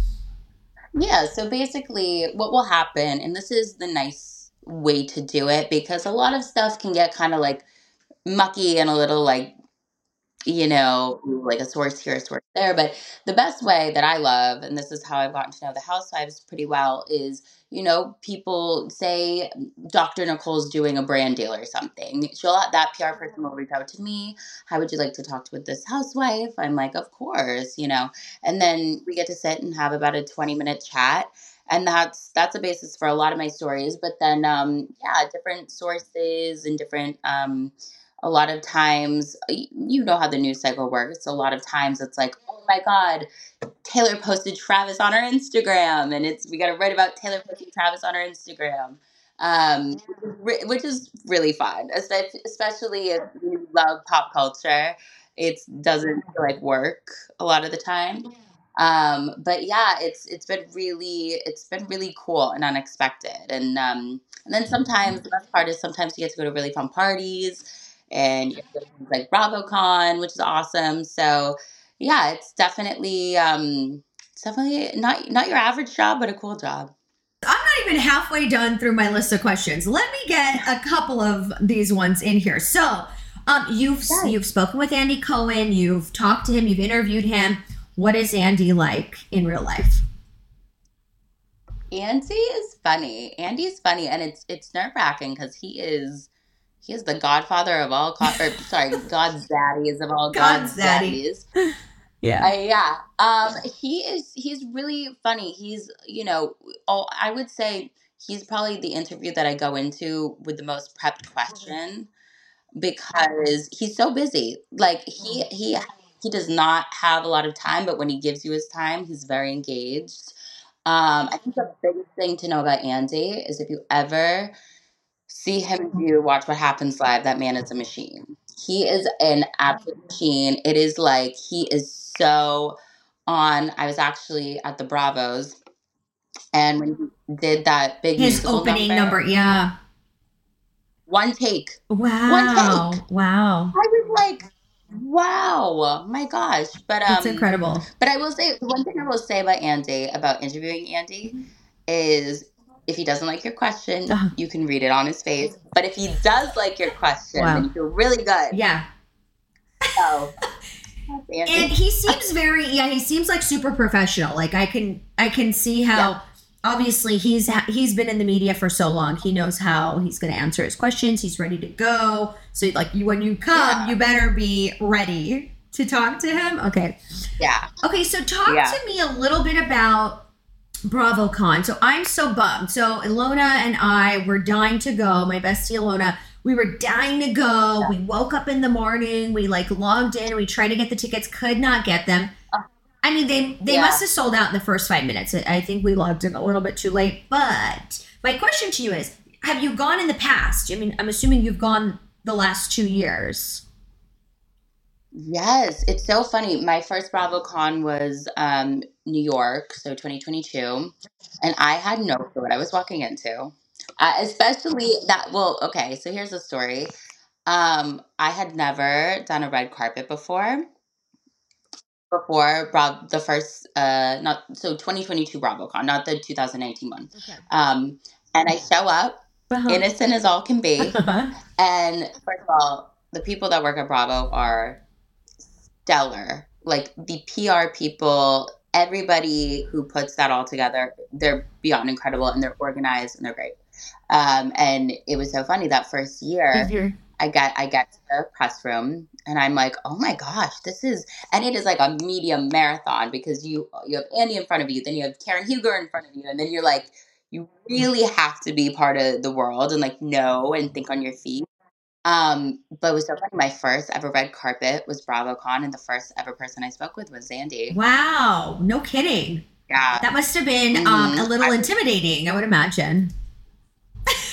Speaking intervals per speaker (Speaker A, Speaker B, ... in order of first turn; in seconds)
Speaker A: 0.9-7.6, 8.2-9.5, 10.4-43.3, 43.8-76.9, 84.1-84.3, 91.9-96.3, 96.8-101.5, 102.4-112.1, 112.8-124.5, 125.3-135.6, 136.5-139.2, 141.1-143.0, 143.7-147.4, 148.0-151.3, 151.9-158.6, 160.0-160.3, 161.1-162.1, 173.5-173.9, 177.4-177.7, 178.4-178.8, 193.7-194.0, 205.1-216.9, 217.5-220.6, 222.1-231.0, 231.6-234.8, 235.8-243.6, 244.1-261.5, 262.0-267.8, 269.7-270.0, 270.7-271.6
Speaker B: 77.4-90.0, 100.3-101.7, 102.2-102.5, 138.2-139.7, 141.9-143.7, 147.1-147.9, 157.3-157.7, 158.5-158.8, 161.4-177.0, 177.8-180.3, 180.9-192.3, 193.0-203.6, 227.2-227.4, 229.5-229.8, 230.8-231.3, 246.5-247.0, 267.7-269.4, 270.0-273.1